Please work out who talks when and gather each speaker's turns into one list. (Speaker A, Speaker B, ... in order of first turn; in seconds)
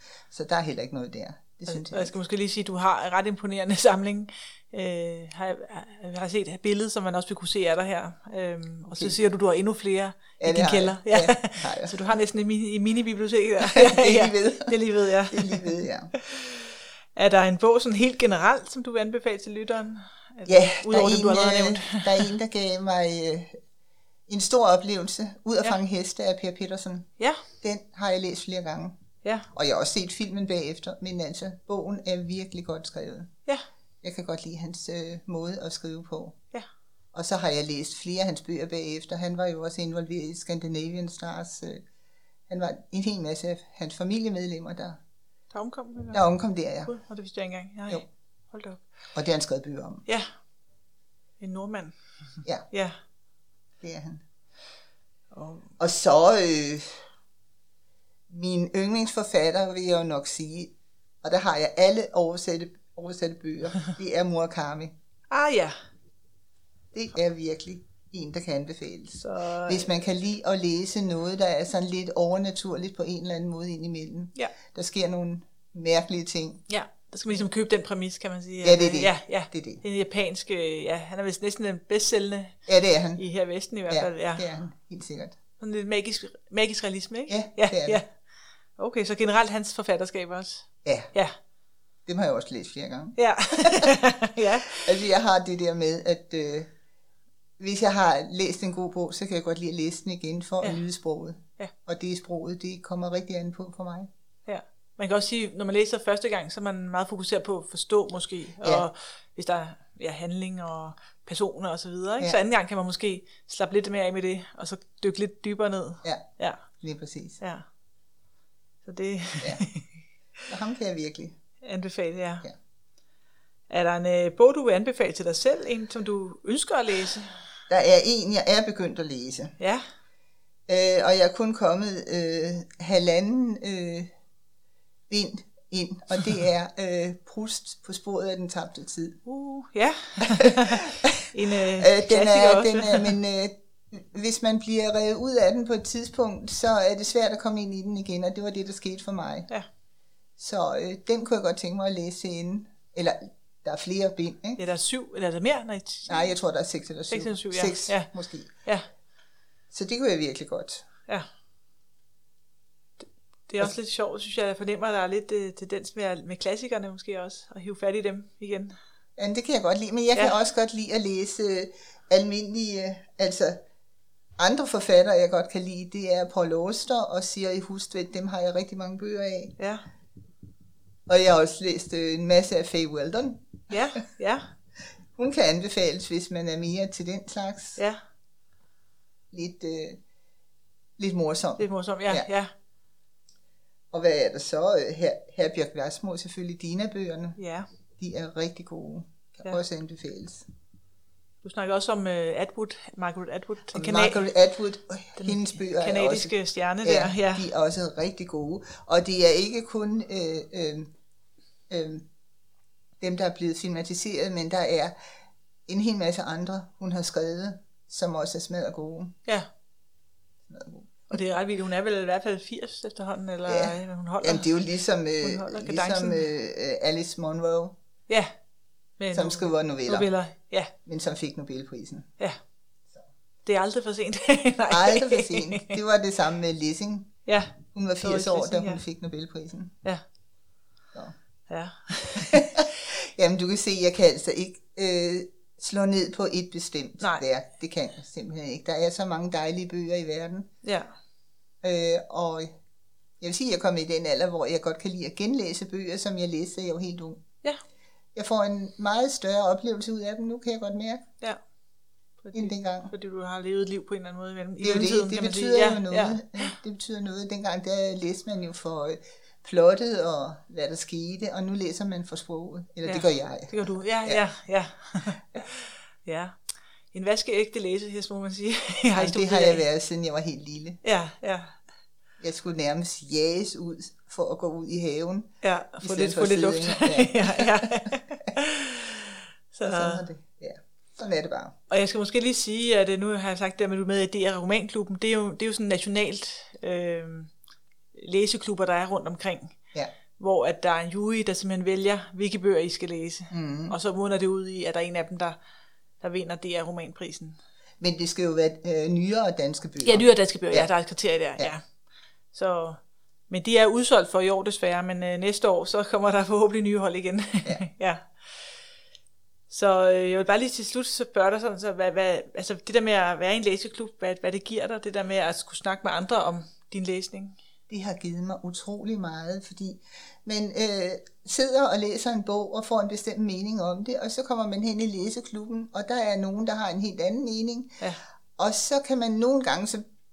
Speaker A: 0.3-2.1, 10.4-12.0, 13.6-14.8, 15.3-16.1, 20.5-23.6, 24.3-27.1, 27.6-28.9, 29.5-33.3, 34.0-36.4, 37.1-41.8, 42.5-45.0, 46.1-46.9, 49.1-50.0, 53.8-54.2, 55.8-57.0, 58.3-64.9, 66.9-76.6, 78.6-79.8, 82.7-83.2, 83.9-85.4, 87.3-88.0, 90.8-91.1, 92.1-94.0, 94.7-96.7, 97.6-104.1, 108.6-108.9, 116.8-117.4, 120.5-121.4, 127.7-129.6, 130.7-134.1, 135.1-139.2, 140.4-149.5, 150.4-154.6, 156.1-158.5, 159.7-160.8, 169.2-173.6, 174.4-179.5, 181.1-184.0, 185.2-187.8, 189.3-190.0, 191.0-192.3, 193.9-197.4, 198.0-200.5, 203.7-206.3, 206.8-210.9, 211.7-212.1, 213.0-214.9, 215.7-219.2, 220.5-220.9, 223.5-227.8, 229.1-230.1, 230.9-232.1, 234.7-237.1, 237.7-239.7, 242.3-250.5, 251.6-252.5, 253.2-257.2, 258.1-261.1, 262.3-262.9, 264.6-274.2, 278.9-280.8, 282.2-285.3, 285.8-287.8, 289.6-291.5, 303.3-303.8, 307.8-310.7, 327.7-337.8, 338.4-339.8
Speaker B: 1.7-22.3, 45.5-46.2, 46.9-48.8, 51.4-52.0, 52.7-53.0, 55.3-55.7, 65.3-65.8, 69.2-69.9, 76.7-82.5, 83.2-84.5, 85.6-88.1, 88.8-91.3, 93.2-94.9, 104.5-116.6, 118.8-119.9, 121.6-122.5, 123.7-127.4, 139.3-143.1, 154.6-156.3, 157.1-158.1, 163.0-168.8, 179.6-179.9, 183.7-184.4, 191.6-192.5, 197.4-197.7, 201.4-204.3, 205.2-207.5, 221.1-224.5, 225.2-226.3, 229.0-230.7, 233.4-235.8, 237.3-238.8, 241.5-242.7, 250.6-250.9, 262.2-266.6, 272.9-276.4, 276.9-279.6, 280.8-281.6, 285.4-290.1, 291.7-297.3, 297.9-299.6, 300.2-305.4, 306.0-307.4, 309.8-311.6, 312.3-318.1, 319.5-327.4